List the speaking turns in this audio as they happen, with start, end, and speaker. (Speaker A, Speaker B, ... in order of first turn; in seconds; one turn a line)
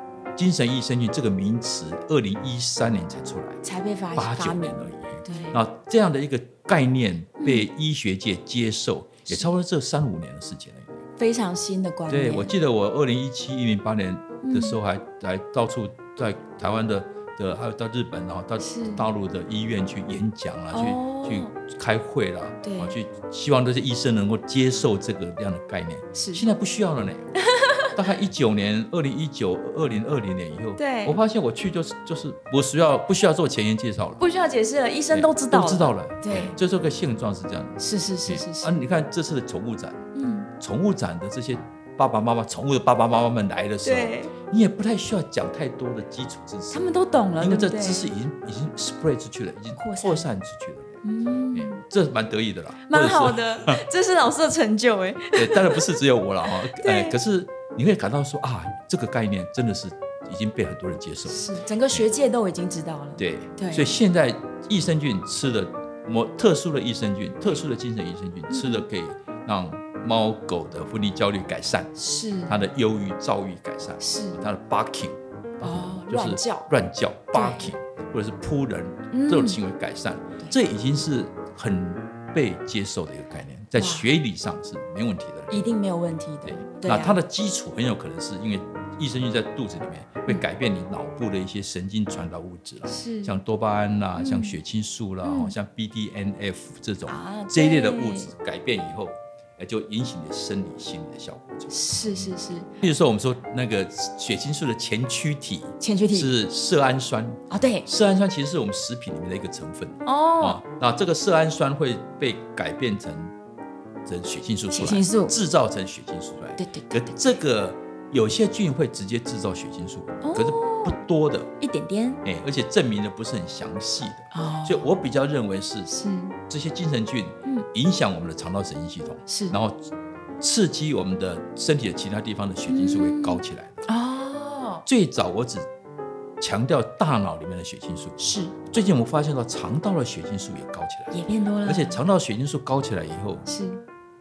Speaker A: 0.3-3.6
Speaker B: 3.6-5.6
Speaker A: 4.1-11.0
Speaker B: 7.4-7.7
Speaker B: 11.2-12.6
Speaker A: 12.1-27.3
Speaker B: 14.4-14.8
Speaker B: 18.6-19.0
Speaker B: 20.7-21.5
Speaker B: 22.6-22.9
Speaker B: 26.1-26.4
Speaker B: 27.4-27.9
Speaker A: 27.9-34.2
Speaker B: 30.8-31.2
Speaker B: 34.2-36.6
Speaker A: 35.1-40.0
Speaker B: 37.8-38.8
Speaker B: 40.1-40.5
Speaker A: 40.6-46.9
Speaker B: 43.8-44.3
Speaker B: 46.7-48.1
Speaker A: 47.4-51.0
Speaker B: 49.7-50.2
Speaker B: 51.0-51.8
Speaker A: 51.5-53.8
Speaker B: 52.9-55.9
Speaker A: 55.3-62.0
Speaker B: 56.6-57.1
Speaker B: 61.3-64.0
Speaker A: 63.2-71.9
Speaker B: 68.5-68.8
Speaker B: 72.0-72.6
Speaker A: 72.5-85.7
Speaker B: 74.0-74.4
Speaker B: 75.6-76.7
Speaker B: 77.3-77.7
Speaker B: 79.1-79.6
Speaker B: 83.8-84.1
Speaker B: 85.5-87.2
Speaker A: 86.5-113.3
Speaker B: 92.9-93.3
Speaker B: 94.2-94.6
Speaker B: 95.2-95.5
Speaker B: 97.1-98.3
Speaker B: 101.7-102.7
Speaker B: 105.8-106.3
Speaker B: 107.5-107.8
Speaker B: 110.0-110.6
Speaker A: 114.0-121.5
Speaker B: 114.7-115.3
Speaker B: 116.6-117.3
Speaker B: 120.2-121.0
Speaker B: 121.6-122.2
Speaker A: 122.2-125.9
Speaker B: 124.3-124.8
Speaker B: 125.9-126.3
Speaker A: 126.5-133.8
Speaker B: 129.3-129.6
Speaker B: 132.7-134.8
Speaker A: 134.8-135.7
Speaker A: 136.4-141.1
Speaker B: 138.2-138.5
Speaker B: 141.1-142.0
Speaker A: 141.6-143.4
Speaker B: 143.4-143.8